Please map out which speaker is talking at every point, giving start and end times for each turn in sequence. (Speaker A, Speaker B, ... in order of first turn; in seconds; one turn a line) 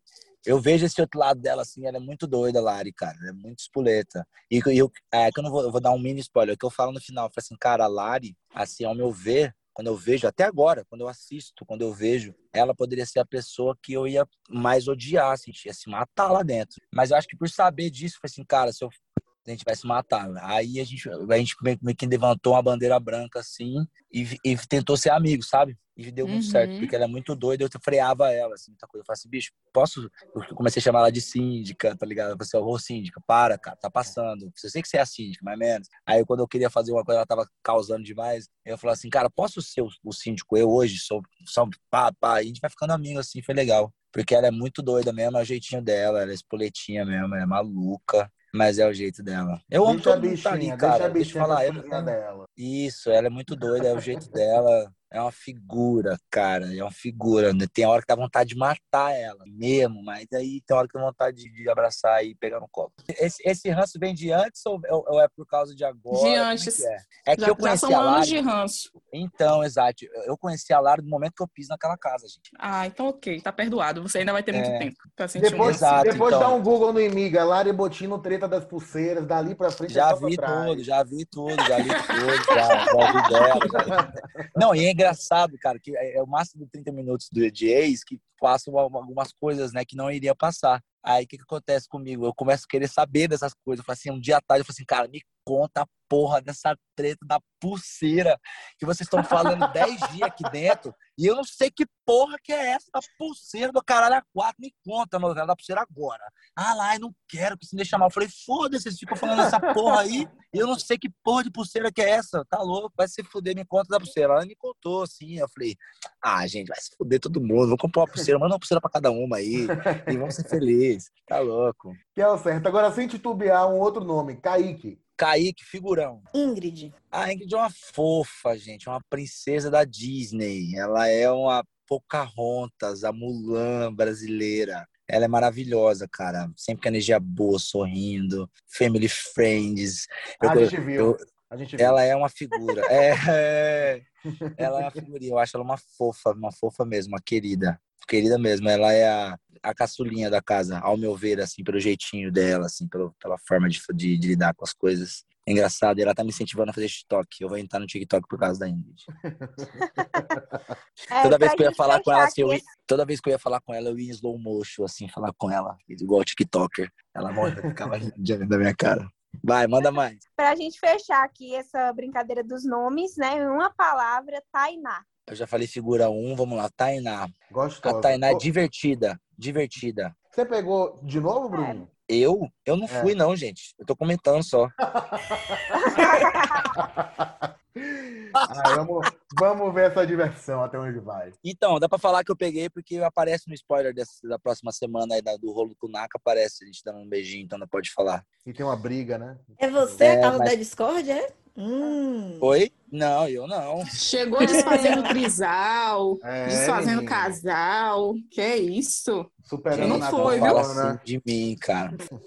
Speaker A: 0.5-68.4
Speaker B: 26.2-26.9
Speaker C: 49.8-52.5
Speaker B: 66.1-68.9
Speaker A: 69.0-72.4
Speaker B: 72.6-76.2
Speaker A: 74.5-74.9
Speaker C: 75.4-80.8
Speaker A: 75.6-76.6
Speaker A: 79.9-84.0
Speaker B: 81.6-83.8
Speaker C: 83.5-84.5
Speaker A: 84.5-122.0
Speaker C: 99.3-100.5
Speaker C: 109.3-110.1
Speaker C: 119.6-120.4
Speaker C: 122.2-125.0
Speaker A: 125.2-126.2
Speaker D: 126.3-126.9
Speaker A: 127.1-141.2
Speaker C: 140.4-142.0
Speaker A: 141.8-144.0
Speaker C: 144.4-144.9
Speaker A: 144.6-159.1
Speaker C: 159.3-160.7
Speaker E: 159.8-160.2
Speaker E: 161.1-162.7
Speaker A: 161.2-170.2
Speaker C: 167.4-168.0
Speaker E: 170.4-175.0
Speaker A: 175.3-177.3
Speaker C: 177.5-178.4
Speaker A: 177.8-180.1
Speaker C: 180.3-181.9
Speaker A: 182.1-184.7
Speaker C: 182.9-183.1
Speaker C: 184.9-191.3
Speaker E: 185.8-186.7
Speaker A: 188.4-188.7
Speaker A: 191.4-198.2
Speaker C: 198.4-200.1
Speaker D: 199.6-202.5
Speaker A: 200.0-200.5
Speaker A: 202.4-203.9
Speaker B: 203.9-210.6
Speaker D: 204.4-205.1
Speaker C: 206.2-207.4
Speaker C: 209.4-211.0
Speaker A: 209.7-212.0